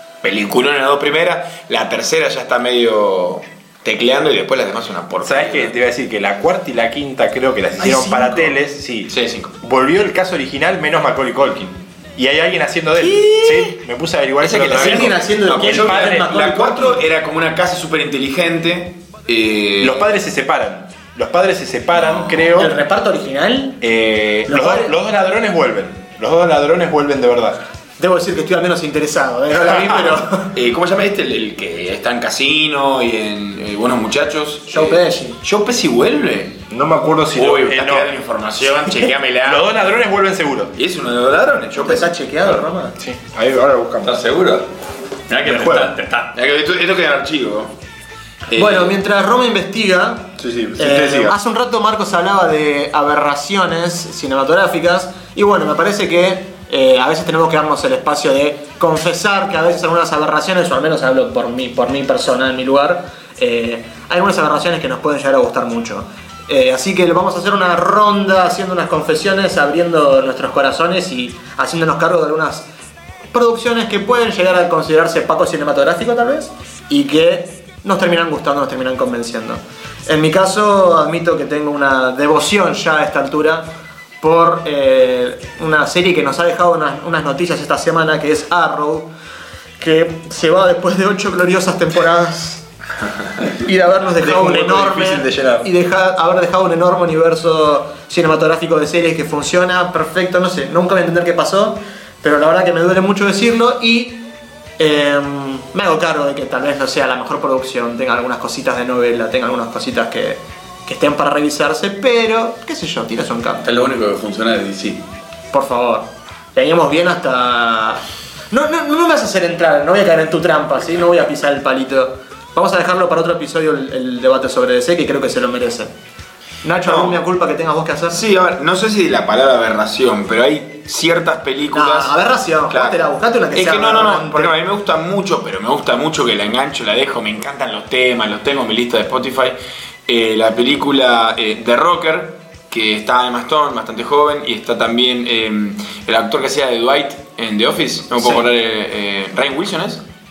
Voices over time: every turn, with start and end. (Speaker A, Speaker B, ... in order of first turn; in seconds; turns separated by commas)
Speaker A: 0.2-5.7, Speaker B: 5.2-16.4, Speaker C: 7.8-8.5, Speaker A: 9.1-9.5, Speaker A: 13.0-13.6, Speaker A: 14.4-20.0, Speaker C: 14.7-17.0, Speaker B: 19.8-22.8, Speaker A: 21.9-22.6, Speaker C: 22.6-23.8, Speaker B: 23.8-27.6, Speaker C: 24.5-24.9, Speaker C: 28.0-30.5, Speaker A: 30.5-36.6, Speaker C: 34.7-35.4, Speaker B: 36.7-38.1, Speaker A: 37.4-39.7, Speaker B: 39.4-40.8, Speaker A: 40.8-42.6, Speaker C: 41.8-43.0, Speaker B: 43.0-44.2, Speaker D: 44.0-44.7, Speaker D: 45.3-46.3, Speaker B: 45.4-45.9, Speaker A: 46.3-47.7, Speaker A: 48.5-49.0, Speaker C: 48.5-72.7, Speaker B: 50.4-51.4, Speaker C: 73.3-83.7, Speaker C: 84.2-89.1, Speaker C: 89.8-92.6, Speaker C: 93.4-104.3, Speaker B: 94.2-95.7, Speaker C: 104.8-113.7, Speaker D: 113.6-115.0, Speaker C: 115.5-125.9, Speaker C: 126.6-128.2, Speaker A: 126.8-127.2, Speaker A: 128.1-132.2, Speaker C: 131.7-134.6, Speaker A: 132.7-139.6, Speaker A: 140.1-150.0, Speaker C: 148.2-148.4